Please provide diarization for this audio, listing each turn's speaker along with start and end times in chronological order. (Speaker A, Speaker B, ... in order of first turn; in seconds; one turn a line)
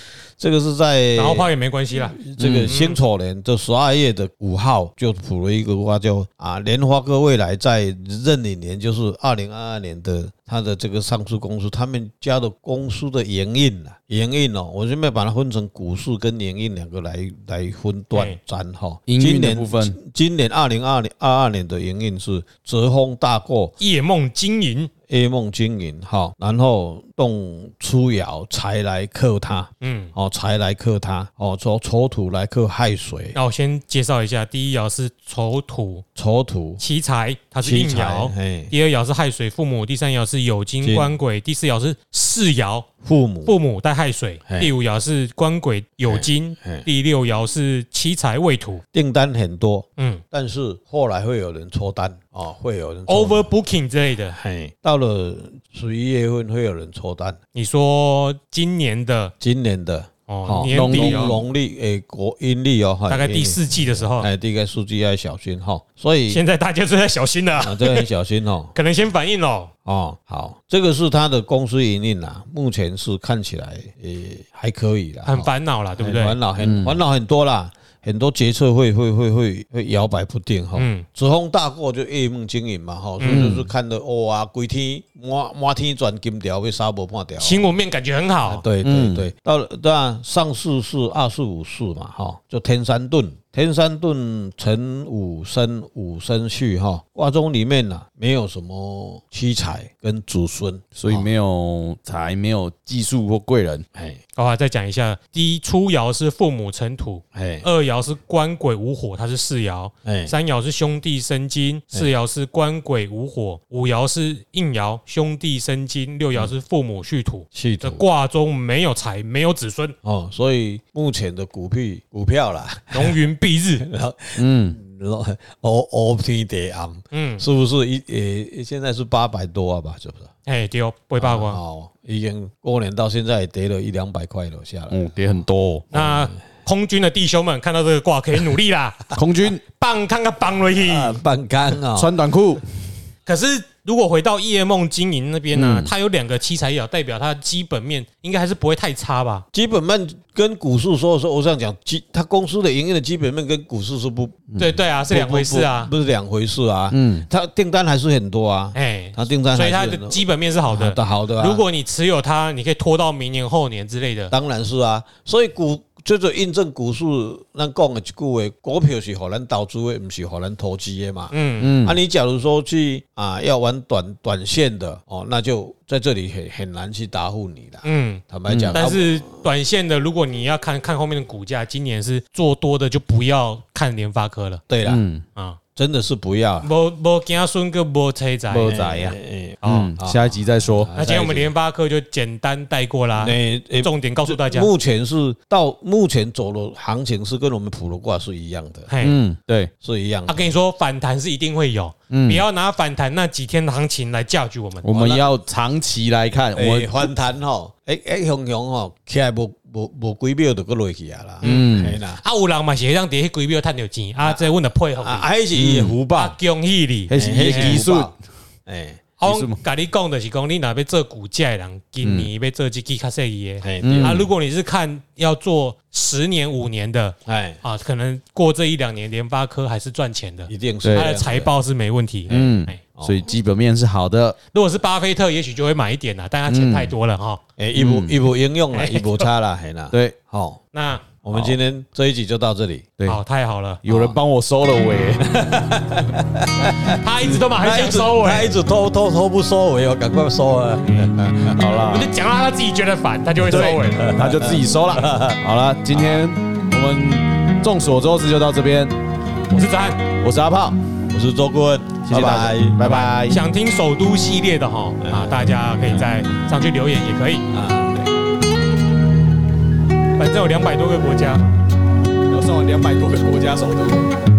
Speaker A: 0.4-23.8
Speaker B: 1.2-3.0
Speaker C: 2.4-2.8
Speaker B: 18.1-18.4
Speaker C: 19.1-20.0
Speaker B: 23.8-24.9
Speaker A: 25.1-33.4
Speaker B: 29.8-30.1
Speaker B: 33.4-36.0
Speaker A: 36.2-36.8
Speaker B: 36.8-42.9
Speaker A: 37.6-38.7
Speaker A: 40.8-41.1
Speaker A: 43.0-43.6
Speaker B: 43.5-48.8
Speaker A: 44.5-44.7
Speaker A: 46.1-46.9
Speaker A: 48.9-53.5
Speaker B: 53.1-54.4
Speaker A: 54.3-57.4
Speaker B: 57.5-59.3
Speaker A: 59.4-66.4
Speaker B: 60.3-61.4
Speaker C: 60.7-61.4
Speaker B: 63.1-64.3
Speaker B: 66.3-68.1
Speaker A: 67.6-68.7
Speaker B: 68.7-69.7
Speaker A: 69.8-87.7
Speaker B: 75.3-76.4
Speaker C: 76.6-77.0
Speaker B: 80.8-81.1
Speaker B: 83.2-83.5
Speaker C: 83.3-83.7
Speaker B: 87.4-88.6
Speaker A: 88.5-101.3
Speaker C: 88.8-89.3
Speaker C: 101.0-103.9
Speaker A: 104.0-104.2
Speaker B: 104.4-120.0
Speaker A: 107.3-107.7
Speaker A: 110.0-110.3
Speaker A: 117.5-118.0
Speaker A: 120.0-123.2
Speaker B: 122.9-123.8
Speaker A: 123.8-130.3
Speaker C: 124.4-124.8
Speaker B: 127.1-127.4
Speaker B: 130.5-131.6
Speaker A: 131.2-135.0
Speaker C: 134.9-135.9
Speaker B: 135.9-139.1
Speaker A: 135.9-136.3
Speaker C: 139.2-139.6
Speaker B: 139.7-141.2
Speaker A: 140.8-142.1
Speaker C: 141.9-142.6
Speaker B: 143.3-149.4
Speaker C: 145.5-145.9
Speaker A: 149.5-154.5
Speaker B: 154.6-155.9
Speaker A: 155.1-161.6
Speaker C: 156.9-157.3
Speaker B: 158.7-164.3
Speaker A: 164.3-179.2
Speaker B: 171.3-171.7
Speaker C: 171.6-172.0
Speaker B: 177.8-184.6
Speaker C: 178.5-178.8
Speaker A: 184.7-185.0
Speaker C: 184.8-185.2
Speaker A: 185.8-186.7
Speaker B: 186.6-188.7
Speaker C: 188.5-190.9
Speaker A: 188.7-191.5
Speaker B: 189.6-189.9
Speaker B: 190.9-194.7
Speaker A: 193.2-198.9
Speaker B: 198.9-199.2
Speaker C: 199.0-199.7
Speaker A: 199.8-200.5
Speaker B: 200.3-204.9
Speaker C: 202.1-202.4
Speaker C: 204.8-207.1
Speaker A: 204.9-205.3
Speaker A: 206.6-212.2
Speaker C: 211.4-212.0
Speaker B: 211.4-215.3
Speaker A: 214.2-216.4
Speaker C: 215.5-216.0
Speaker B: 216.1-217.8
Speaker C: 217.1-218.1
Speaker A: 217.1-218.1
Speaker A: 218.7-219.1
Speaker B: 219.2-232.8
Speaker C: 219.2-219.6
Speaker C: 222.0-222.3
Speaker A: 223.6-224.2
Speaker C: 223.8-224.2
Speaker A: 227.3-227.6
Speaker A: 230.5-231.5
Speaker A: 232.3-233.3
Speaker C: 232.3-234.4
Speaker B: 234.5-237.4
Speaker C: 236.5-236.9
Speaker A: 237.6-240.6
Speaker C: 237.8-238.2
Speaker B: 238.7-239.3
Speaker B: 240.7-241.1
Speaker A: 241.2-242.9
Speaker C: 241.3-241.6
Speaker B: 243.1-243.8
Speaker C: 243.8-246.1
Speaker A: 243.9-244.2
Speaker A: 245.3-247.0
Speaker B: 247.0-248.5
Speaker A: 247.5-251.6
Speaker C: 251.5-252.1
Speaker B: 251.9-254.3
Speaker C: 253.5-258.9
Speaker A: 253.6-255.4
Speaker A: 255.9-256.2
Speaker B: 259.5-260.1
Speaker C: 260.2-260.8
Speaker A: 261.1-263.2
Speaker C: 262.1-263.4
Speaker B: 262.8-267.5
Speaker A: 265.0-266.1
Speaker A: 267.5-268.1
Speaker B: 270.2-271.4
Speaker C: 272.3-274.1